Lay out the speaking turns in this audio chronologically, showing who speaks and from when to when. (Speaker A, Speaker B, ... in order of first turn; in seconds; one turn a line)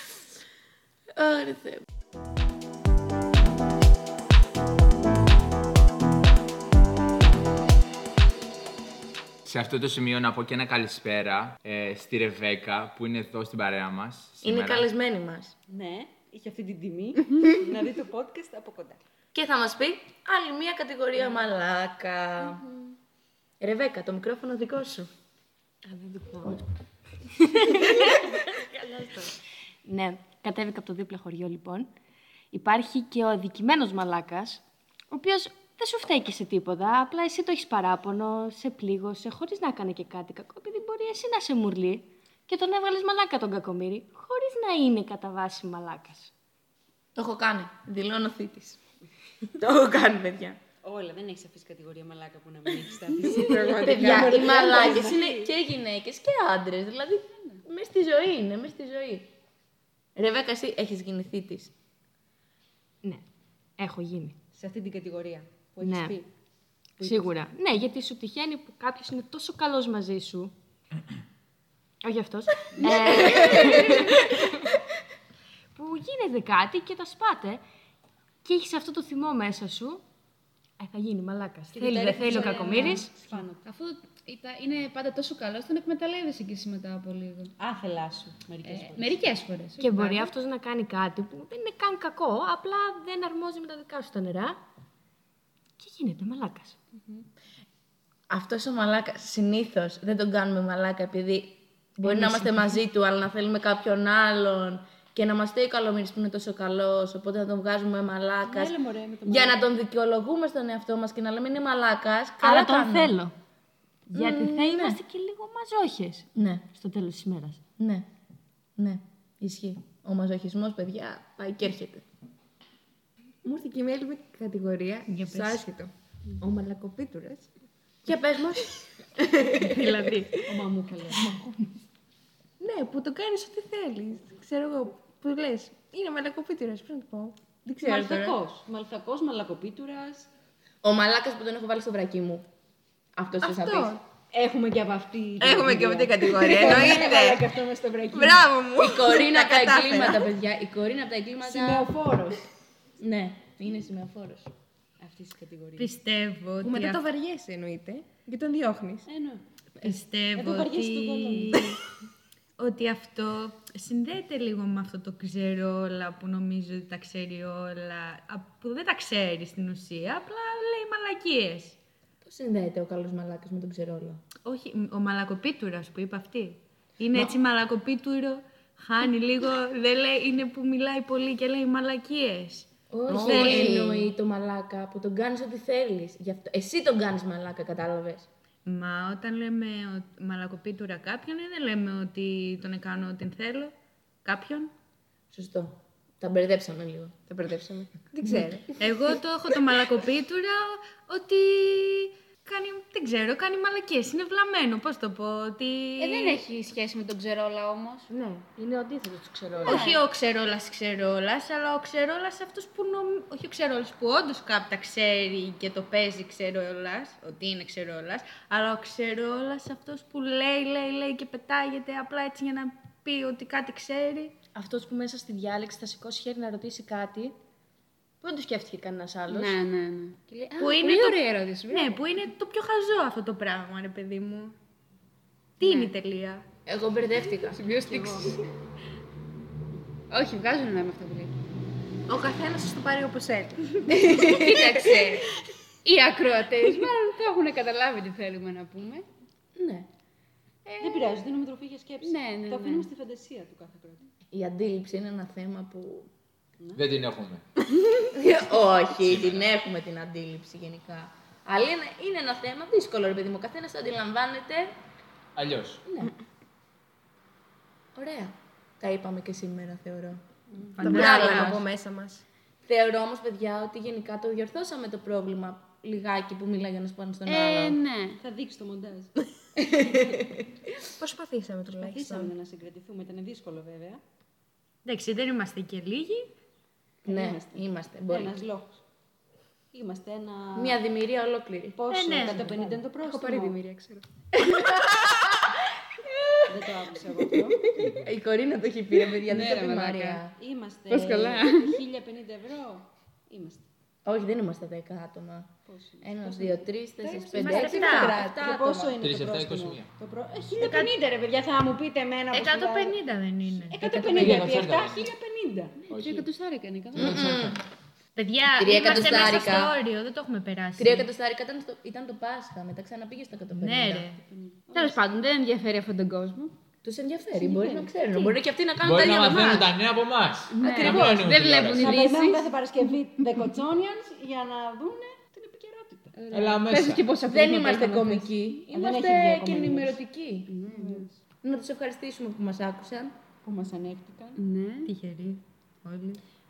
Speaker A: 1.1-1.8
Speaker B: 9.4-14.9
Speaker A: 14.4-15.5
Speaker C: 15.7-19.0
Speaker A: 19.3-22.6
Speaker A: 23.6-25.1
Speaker D: 25.8-26.6
Speaker D: 27.4-29.3
Speaker D: 29.8-31.9
Speaker D: 32.5-46.3
Speaker A: 47.1-48.8
Speaker A: 49.5-50.6
Speaker C: 50.8-55.5
Speaker E: 53.2-54.9
Speaker A: 53.8-59.3
Speaker A: 60.1-61.7
Speaker D: 63.8-64.3
Speaker C: 64.5-66.3
Speaker D: 65.8-66.2
Speaker C: 67.0-67.5
Speaker D: 67.0-70.5
Speaker D: 72.0-74.5
Speaker D: 75.7-77.6
Speaker D: 78.4-80.0
Speaker D: 80.8-83.1
Speaker C: 81.7-83.7
Speaker F: 82.2-83.0
Speaker F: 83.6-87.5
Speaker C: 87.6-89.2
Speaker F: 88.6-90.3
Speaker D: 89.8-94.6
Speaker D: 95.8-96.8
Speaker A: 98.3-113.2
Speaker D: 102.0-102.8
Speaker C: 108.4-109.6
Speaker D: 112.4-113.3
Speaker D: 114.1-117.6
Speaker A: 114.2-115.0
Speaker A: 116.3-116.7
Speaker A: 117.7-118.1
Speaker A: 118.8-122.0
Speaker E: 123.4-127.5
Speaker G: 125.1-125.7
Speaker A: 128.1-128.8
Speaker E: 129.2-130.3
Speaker G: 129.6-130.3
Speaker C: 130.4-131.3
Speaker E: 132.6-138.3
Speaker C: 137.8-140.3
Speaker A: 140.8-142.5
Speaker A: 143.2-144.0
Speaker E: 143.4-144.0
Speaker C: 144.3-148.5
Speaker A: 145.4-147.3
Speaker E: 146.2-147.0
Speaker E: 148.1-150.3
Speaker A: 148.8-151.9
Speaker C: 151.4-152.4
Speaker A: 153.0-154.5
Speaker C: 155.0-155.9
Speaker G: 155.8-157.1
Speaker E: 156.6-159.1
Speaker C: 159.1-161.8
Speaker G: 159.8-161.8
Speaker G: 162.6-171.8
Speaker A: 172.2-174.2
Speaker G: 174.4-184.0
Speaker A: 182.9-188.3
Speaker C: 183.1-183.9
Speaker G: 188.6-194.7
Speaker A: 195.3-197.2
Speaker E: 197.3-198.4
Speaker G: 198.1-206.4
Speaker F: 206.0-208.1
Speaker D: 208.1-209.8
Speaker G: 209.6-227.3
Speaker F: 209.6-210.0
Speaker F: 229.3-232.0
Speaker G: 230.6-234.6
Speaker G: 235.6-236.5
Speaker F: 235.6-235.9
Speaker A: 236.7-237.6
Speaker G: 237.6-238.4
Speaker C: 237.9-238.4
Speaker F: 240.1-241.4
Speaker E: 242.1-245.2
Speaker F: 243.9-245.3
Speaker G: 243.9-244.3
Speaker A: 244.1-244.6
Speaker F: 245.8-249.1
Speaker A: 249.6-249.9
Speaker F: 250.6-251.2
Speaker C: 250.8-254.1
Speaker F: 252.0-252.9
Speaker A: 254.3-256.1
Speaker B: 256.7-257.4
Speaker A: 258.1-264.7
Speaker B: 258.9-259.5
Speaker B: 265.3-265.8
Speaker A: 265.9-266.1
Speaker A: 267.9-270.2
Speaker C: 270.6-271.5
Speaker E: 270.8-272.2
Speaker G: 270.8-271.6
Speaker A: 270.9-271.6
Speaker A: 272.6-277.8
Speaker F: 277.2-278.2
Speaker C: 278.2-279.2
Speaker E: 281.0-282.3
Speaker C: 281.7-284.0
Speaker G: 284.8-286.3
Speaker C: 287.0-288.8
Speaker A: 287.1-288.3
Speaker C: 289.7-290.8
Speaker A: 290.5-291.8
Speaker C: 291.7-293.6
Speaker G: 291.9-292.8
Speaker E: 293.0-294.0
Speaker A: 294.5-294.8
Speaker C: 296.4-297.7
Speaker A: 297.7-300.3
Speaker C: 299.3-303.7
Speaker G: 299.4-299.9
Speaker G: 300.9-301.5
Speaker A: 304.1-308.3
Speaker C: 305.6-313.0
Speaker G: 307.3-308.5
Speaker E: 308.4-308.9
Speaker B: 309.0-309.9
Speaker G: 310.5-311.0
Speaker G: 312.3-314.4
Speaker C: 313.7-315.8
Speaker B: 314.1-315.1
Speaker B: 315.9-316.3
Speaker F: 315.9-317.4
Speaker A: 316.9-317.6
Speaker B: 316.9-317.6
Speaker G: 318.1-321.1
Speaker A: 318.6-319.8
Speaker A: 320.8-324.1
Speaker G: 323.5-324.2
Speaker C: 324.2-325.0
Speaker F: 324.7-326.5
Speaker A: 326.8-329.7
Speaker C: 327.4-327.8
Speaker B: 328.8-332.1
Speaker F: 330.5-332.5
Speaker A: 330.6-331.3
Speaker C: 331.7-336.1
Speaker B: 336.3-337.1
Speaker F: 336.3-338.3
Speaker A: 337.2-340.5
Speaker C: 338.7-340.0
Speaker F: 340.5-341.1
Speaker C: 340.6-341.1
Speaker A: 341.4-343.2
Speaker C: 343.4-344.4
Speaker F: 344.3-344.9
Speaker G: 344.8-346.2